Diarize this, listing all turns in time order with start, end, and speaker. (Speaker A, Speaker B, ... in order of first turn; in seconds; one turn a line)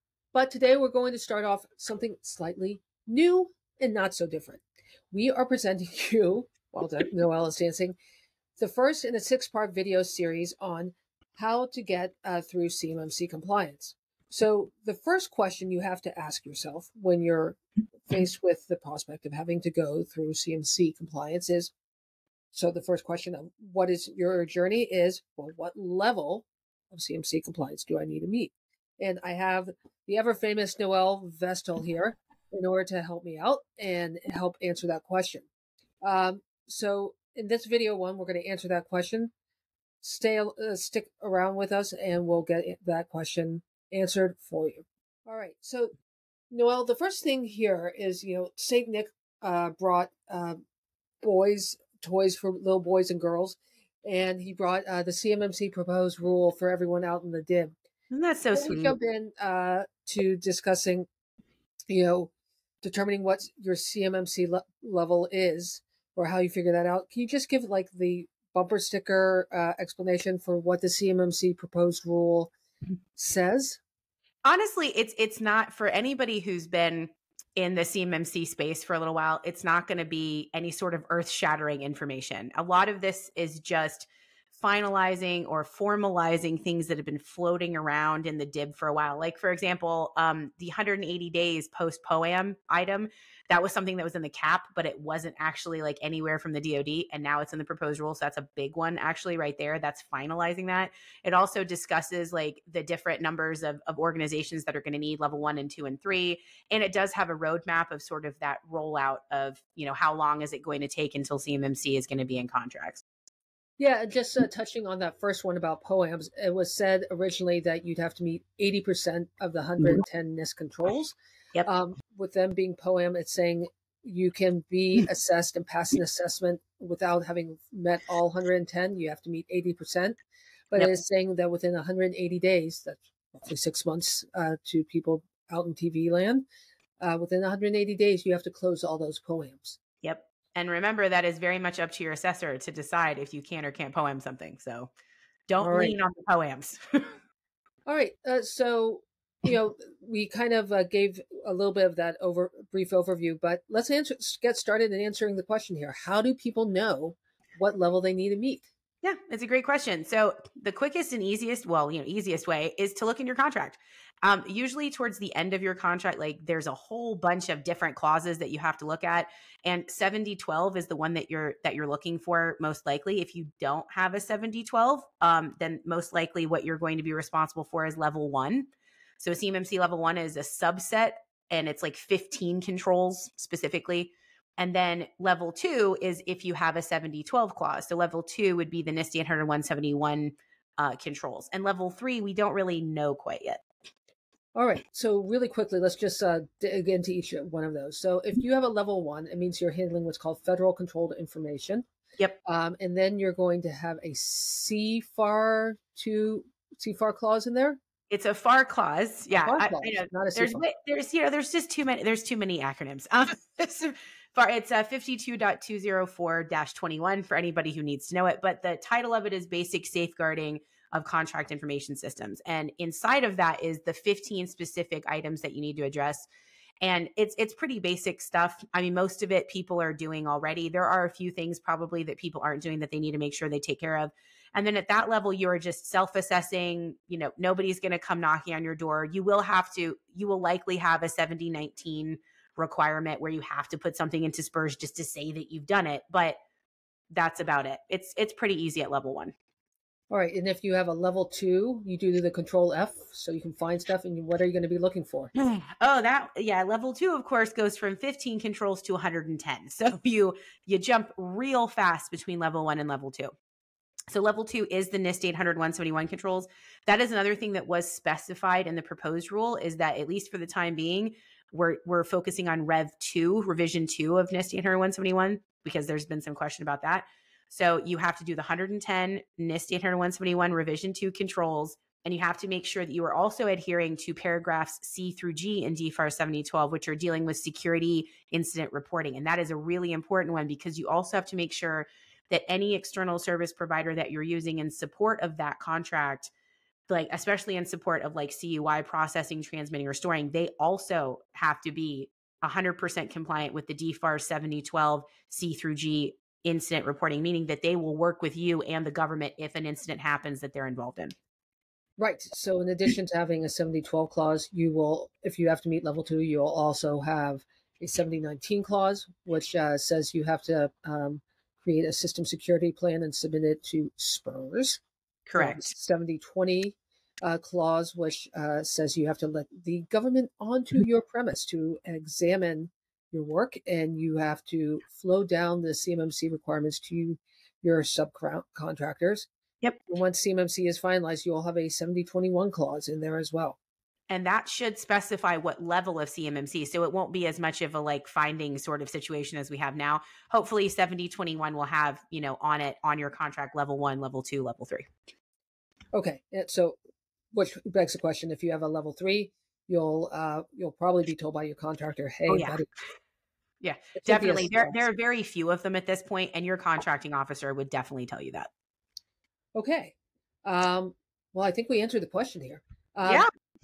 Speaker A: 0.3-8.0
Speaker A: 8.6-21.7
Speaker A: 22.5-35.5
Speaker A: 36.0-39.3
Speaker A: 40.0-45.9
Speaker A: 46.5-50.6
Speaker A: 51.2-57.7
Speaker B: 58.1-58.9
Speaker A: 58.5-61.1
Speaker A: 61.9-62.3
Speaker A: 62.8-72.5
Speaker A: 73.2-73.8
Speaker B: 74.4-113.0
Speaker A: 113.8-130.2
Speaker A: 130.7-136.4
Speaker A: 137.0-139.8
Speaker B: 140.0-144.9
Speaker B: 145.5-147.2
Speaker A: 145.6-146.0
Speaker A: 147.9-158.7
Speaker B: 159.0-193.6
Speaker A: 194.5-201.8
Speaker A: 202.4-207.8
Speaker B: 208.1-226.3
Speaker A: 209.3-210.6
Speaker B: 226.8-246.4
Speaker B: 247.1-249.3
Speaker A: 250.1-255.3
Speaker B: 255.3-263.3
Speaker B: 264.1-296.3
Speaker B: 296.9-311.1
Speaker A: 312.0-324.8
Speaker B: 325.3-325.7
Speaker A: 325.4-339.3
Speaker A: 339.9-343.6
Speaker B: 344.1-354.9
Speaker A: 355.9-356.8
Speaker A: 357.3-362.7
Speaker B: 362.3-362.6
Speaker B: 363.6-368.5
Speaker A: 363.9-364.8
Speaker A: 369.5-373.2